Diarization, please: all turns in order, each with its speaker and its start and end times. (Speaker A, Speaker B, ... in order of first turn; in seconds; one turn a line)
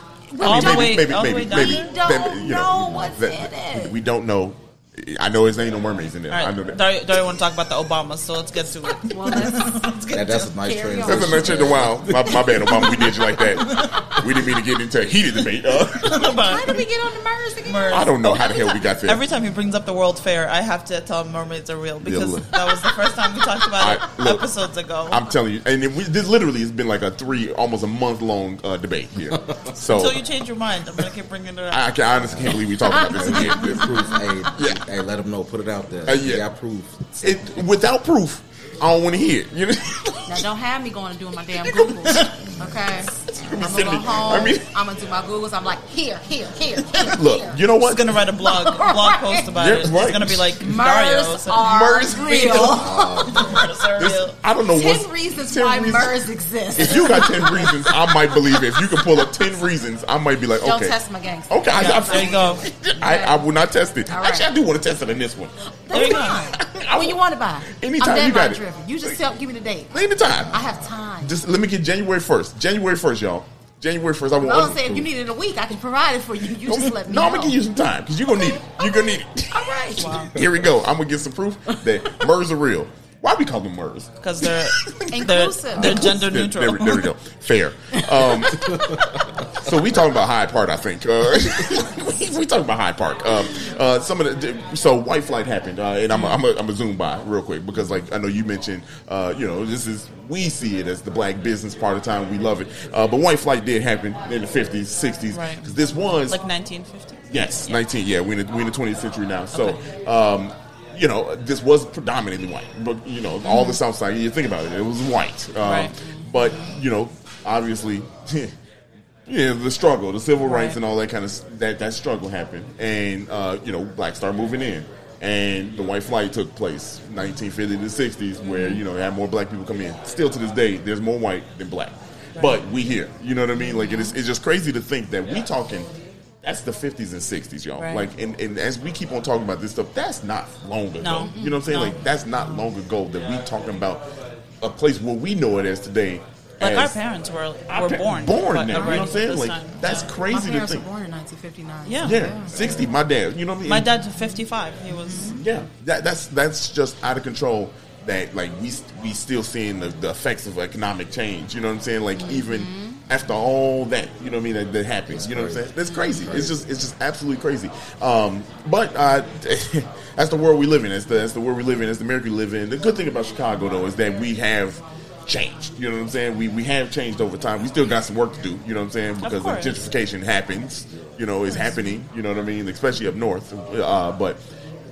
Speaker A: 0.3-4.0
Speaker B: 0.4-1.9
Speaker C: 0.4-6.8
Speaker B: 6.3-10.5
Speaker A: 9.1-9.9
Speaker D: 10.1-12.8
Speaker A: 10.6-13.4
Speaker C: 11.0-16.4
Speaker B: 13.6-14.2
Speaker B: 16.0-16.8
Speaker A: 16.2-18.8
Speaker B: 17.6-25.2
Speaker C: 17.9-19.2
Speaker C: 22.0-22.5
Speaker C: 23.8-24.4
Speaker C: 25.1-30.2
Speaker B: 29.9-31.8
Speaker C: 31.7-34.0
Speaker D: 32.2-37.6
Speaker A: 32.9-34.0
Speaker C: 34.5-34.8
Speaker C: 36.1-36.5
Speaker C: 37.2-40.5
Speaker A: 40.3-47.6
Speaker C: 41.6-42.4
Speaker B: 42.1-42.4
Speaker C: 43.2-44.7
Speaker C: 47.0-48.2
Speaker B: 47.8-51.7
Speaker A: 48.4-49.6
Speaker C: 49.6-50.5
Speaker A: 50.5-53.6
Speaker C: 51.5-52.9
Speaker B: 52.5-54.4
Speaker D: 52.7-53.6
Speaker C: 54.0-56.2
Speaker A: 54.7-59.3
Speaker C: 56.7-61.0
Speaker A: 60.6-63.5
Speaker C: 61.5-69.2
Speaker B: 61.7-62.7
Speaker A: 64.1-64.5
Speaker A: 65.9-69.9
Speaker B: 65.9-66.5
Speaker C: 69.9-70.6
Speaker D: 70.4-70.8
Speaker A: 70.5-71.3
Speaker C: 71.2-75.1
Speaker A: 74.4-77.6
Speaker C: 76.7-85.1
Speaker A: 78.4-80.4
Speaker B: 80.0-80.3
Speaker B: 84.2-87.1
Speaker A: 85.1-86.2
Speaker C: 85.7-89.0
Speaker A: 88.1-88.9
Speaker C: 89.5-106.4
Speaker B: 96.1-96.4
Speaker B: 105.3-105.7
Speaker B: 106.3-107.8
Speaker C: 107.3-118.5
Speaker B: 109.5-109.8
Speaker B: 113.5-113.8
Speaker B: 115.6-115.9
Speaker A: 116.0-116.6
Speaker C: 119.3-135.9
Speaker B: 120.4-120.8
Speaker B: 128.5-128.8
Speaker A: 133.6-134.1
Speaker C: 136.4-144.1
Speaker B: 137.8-138.1
Speaker B: 141.0-142.0
Speaker A: 141.2-141.9
Speaker C: 144.6-147.0
Speaker B: 146.6-150.1
Speaker C: 147.7-150.9
Speaker A: 148.8-149.1
Speaker A: 150.3-152.9
Speaker B: 151.8-152.2
Speaker C: 152.0-153.9
Speaker B: 153.7-155.4
Speaker A: 154.9-155.4
Speaker C: 155.3-184.4
Speaker A: 162.2-163.0
Speaker D: 165.1-166.6
Speaker A: 165.9-166.3
Speaker B: 179.2-179.8